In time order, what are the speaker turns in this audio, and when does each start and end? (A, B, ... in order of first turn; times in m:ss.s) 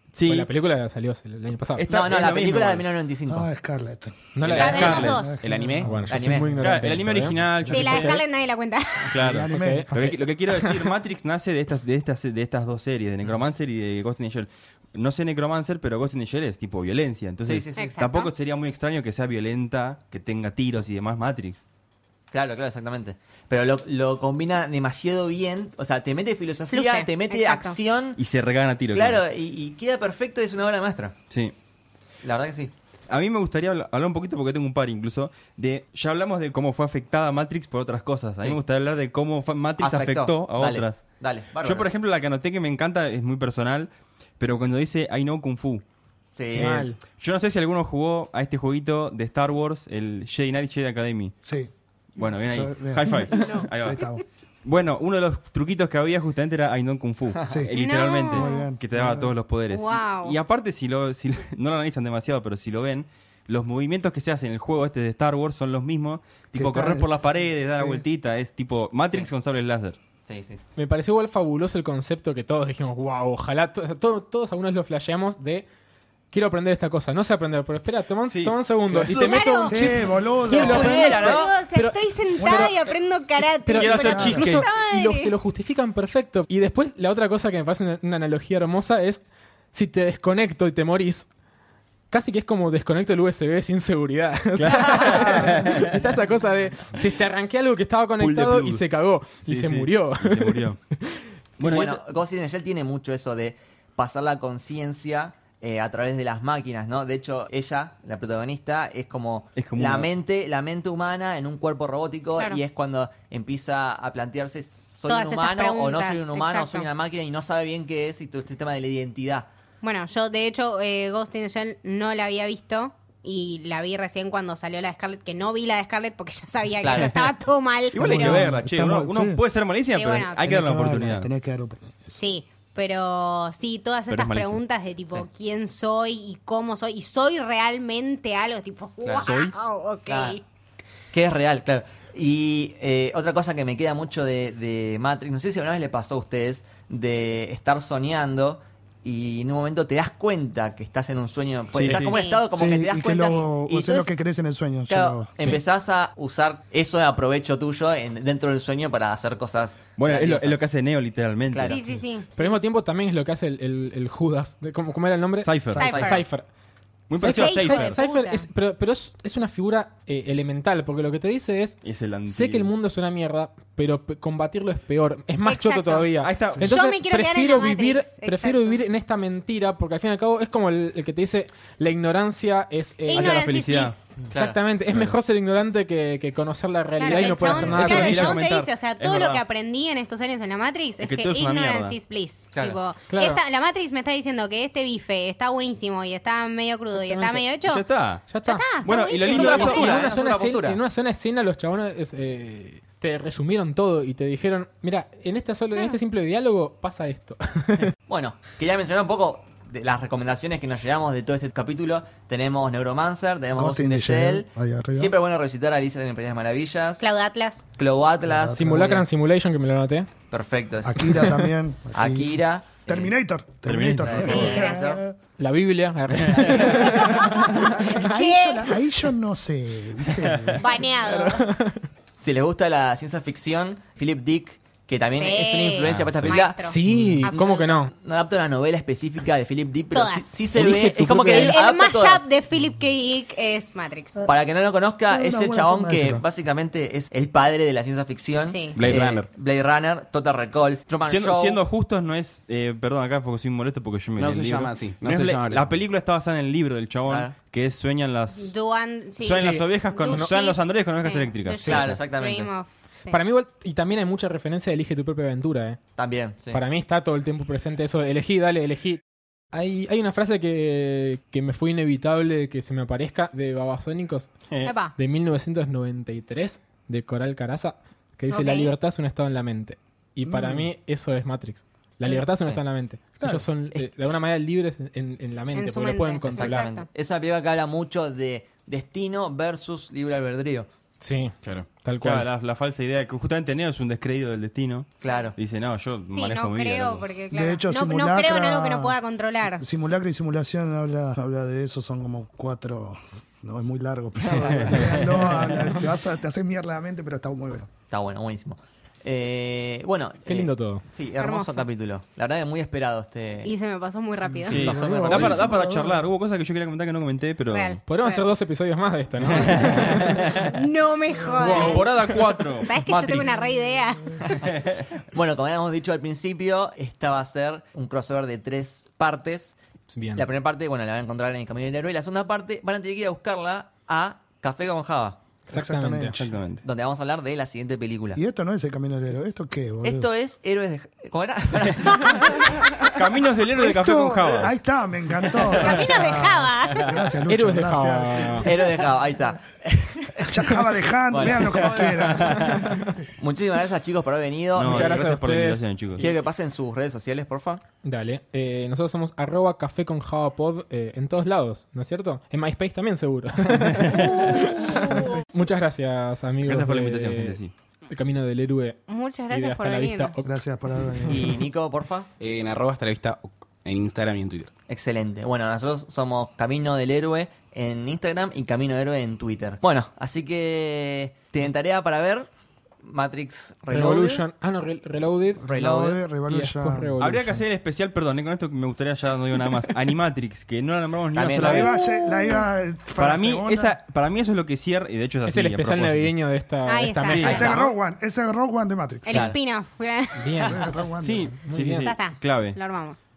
0:00.1-0:00.5 A
0:00.2-0:01.9 B
0:01.8-0:02.8 A
0:01.9-0:03.5 C
0:03.3-0:06.7 D
0:04.4-0:05.2 B
0:04.4-0:05.2 A
0:04.5-0:05.4 E
0:05.3-0:06.0 F
0:05.8-0:08.2 B
0:06.1-0:06.5 C
0:06.6-0:08.2 A
0:07.4-0:08.1 D
0:07.7-0:09.2 E
0:09.1-0:21.6 A
0:09.2-0:09.9 D
0:09.5-0:10.9 B
0:17.5-0:17.9 C
0:17.8-0:18.3 E
0:22.3-0:28.2 C
0:26.7-0:27.8 E
0:28.2-0:29.2 A
0:28.9-0:31.2 C
0:32.2-0:32.7 C
0:33.1-0:45.8 A
0:39.8-0:41.9 C
0:46.4-0:46.9 C
0:46.5-0:47.0 B
0:46.6-0:51.4 A
0:51.4-0:51.7 D
0:52.2-0:54.0 A
0:52.3-0:53.3 D
0:53.1-0:53.7 E
0:53.8-0:54.2 D
0:54.6-1:10.0 A
0:57.5-0:57.7 D
0:57.7-0:58.7 E
0:58.2-0:59.4 D
0:59.7-1:00.4 E
1:06.5-1:08.0 D
1:10.3-1:10.6 C
1:10.8-1:15.7 B
1:16.3-1:22.8 B
1:18.3-1:19.6 A
1:19.0-1:19.9 E
1:19.6-1:21.2 D
1:20.5-1:21.5 C
1:20.6-1:25.3 E
1:22.4-1:22.8 D
1:23.6-1:31.3 B
1:23.8-1:24.6 A
1:23.9-1:24.5 D
1:32.1-1:41.2 B
1:34.6-1:36.0 A
1:34.6-1:35.5 C
1:38.2-1:38.8 A
1:39.4-1:40.8 A
1:41.6-1:42.0 A
1:41.6-1:59.5 C
1:49.6-1:50.1 A
1:55.1-1:56.9 E
1:59.8-2:08.5 E
2:06.8-2:07.3 C
2:07.9-2:11.3 A
2:08.0-2:09.4 D
2:09.9-2:10.5 E
2:10.4-2:12.2 D
2:12.2-2:20.4 E
2:14.1-2:14.6 A
2:19.0-2:19.3 C
2:19.2-2:19.5 A
2:20.1-2:20.4 C
2:21.1-2:34.1 C
2:31.7-2:32.2 A
2:31.8-2:32.4 E
2:32.5-2:35.4 D
2:34.9-2:40.6 C
2:40.0-2:42.0 A
2:41.5-2:41.8 C
2:41.6-2:42.3 E
2:42.4-2:46.5 B
2:45.4-2:45.9 A
2:45.8-2:46.2 E
2:45.8-2:46.2 C
2:47.1-2:48.0 A
2:47.2-3:03.5 B
2:47.2-2:48.5 E
2:51.8-2:52.7 A
2:55.4-2:58.8 E
2:56.2-2:56.7 A
3:03.1-3:04.2 E
3:03.1-3:04.0 A
3:04.3-3:04.6 C
3:04.3-3:08.4 B
3:07.0-3:17.8 E
3:07.1-3:09.4 A
3:11.0-3:12.0 A
3:12.5-3:12.8 C
3:13.1-3:13.4 B
3:16.9-3:17.4 B
3:17.6-3:18.3 A
3:18.3-3:18.7 B
3:18.4-3:20.0 E
3:18.8-3:20.6 A
3:19.2-3:20.8 C
3:19.3-3:27.9 B
3:28.1-3:37.0 C
3:33.5-3:35.2 D
3:37.0-3:37.7 E
3:37.8-3:39.0 C
3:38.2-3:39.0 D
3:38.6-3:40.1 B
3:40.3-3:43.1 C
3:40.8-3:45.2 D
3:43.6-3:44.5 A
3:44.0-3:45.1 C
3:44.2-3:45.0 E
3:45.4-3:47.7 B
3:46.3-3:46.8 C
3:46.3-3:46.7 A
3:46.8-3:48.7 E
3:47.8-3:50.6 D
3:50.6-3:51.5 E
3:51.0-3:51.9 B
3:52.2-4:02.3 C
3:55.2-3:57.6 E
3:55.8-3:56.4 A
3:56.6-3:57.9 B
3:59.9-4:00.4 E
4:00.6-4:01.3 A
4:00.6-4:01.5 F
4:01.3-4:04.3 E
4:04.3-4:11.6 C
4:05.1-4:06.2 D
4:08.5-4:08.8 E
4:08.8-4:09.3 F
4:11.0-4:18.5 A
4:14.2-4:15.8 F
4:17.1-4:17.4 C
4:18.4-4:23.2 E
4:19.2-4:22.0 A
4:19.3-4:20.4 B
4:21.6-4:22.5 C
4:23.1-4:25.8 B
4:26.0-4:26.6 C
4:26.5-4:29.0 B
4:29.5-4:34.3 B
4:34.6-4:35.0 E
4:35.0-4:46.7 B
4:38.3-4:38.7 E
4:40.2-4:40.7 D
4:43.2-4:43.5 D
4:45.6-4:46.9 E
4:46.3-4:50.7 C
4:51.0-4:52.3 B
4:52.0-4:57.1 A
4:55.0-4:55.4 C
4:56.1-4:59.6 E
4:57.3-4:59.0 D
4:59.6-5:07.7 D
5:04.5-5:04.8 A
5:04.7-5:05.7 B
5:07.9-5:13.5 C
5:10.3-5:10.8 B
5:11.2-5:11.6 E
5:13.4-5:14.6 E
5:14.2-5:16.0 D
5:14.5-5:15.6 C
5:14.5-5:17.8 A
5:17.5-5:18.3 E
5:17.9-5:20.3 B
5:19.2-5:20.6 A
5:20.3-5:24.2 E
5:21.3-5:23.3 A
5:21.4-5:21.9 B
5:24.2-5:24.5 C
5:24.4-5:24.9 A
5:25.1-5:29.6 C
5:29.9-5:30.3 B
5:30.2-5:35.2 C
5:35.5-5:36.2 B
5:35.5-5:36.4 D
5:36.2-5:36.6 A
5:36.6-5:38.2 C
5:38.1-5:40.1 D
5:39.8-5:42.8 C
5:41.9-5:42.3 E
5:42.8-5:44.5 A
5:43.6-5:48.8 D
5:45.6-5:46.9 E
5:47.3-5:48.5 B
5:48.4-5:52.6 C
5:50.3-5:52.6 D
5:51.7-5:52.7 A
5:53.2-5:55.1 C
5:54.6-5:56.1 A
5:54.6-5:55.7 B
5:56.0-5:57.6 C
5:57.8-6:07.4 B
6:03.5-6:04.1 A
6:04.0-6:05.2 E
6:06.4-6:07.5 A
6:07.9-6:08.8 B
6:08.9-6:10.1 E
6:09.3-6:10.3 B
6:10.2-6:11.4 D
6:11.1-6:12.1 C
6:12.2-6:14.5 F
6:14.7-6:22.3 C
6:22.8-6:24.2 C
6:23.7-6:25.6 B
6:25.4-6:26.9 D
6:25.6-6:26.0 C
6:26.3-6:27.4 B
6:27.0-6:31.7 A
6:31.1-6:31.7 C
6:31.4-6:33.8 D
6:31.7-6:32.5 E
6:33.0-6:36.1 A
6:35.3-6:37.7 B
6:36.7-6:37.6 E
6:37.1-6:37.6 A
6:37.2-6:39.3 D
6:39.1-6:40.5 E
6:39.1-6:39.4 C
6:40.2-6:40.6 B
6:40.4-6:41.4 D
6:41.0-6:42.6 A
6:41.4-6:41.9 B
6:41.8-6:43.0 E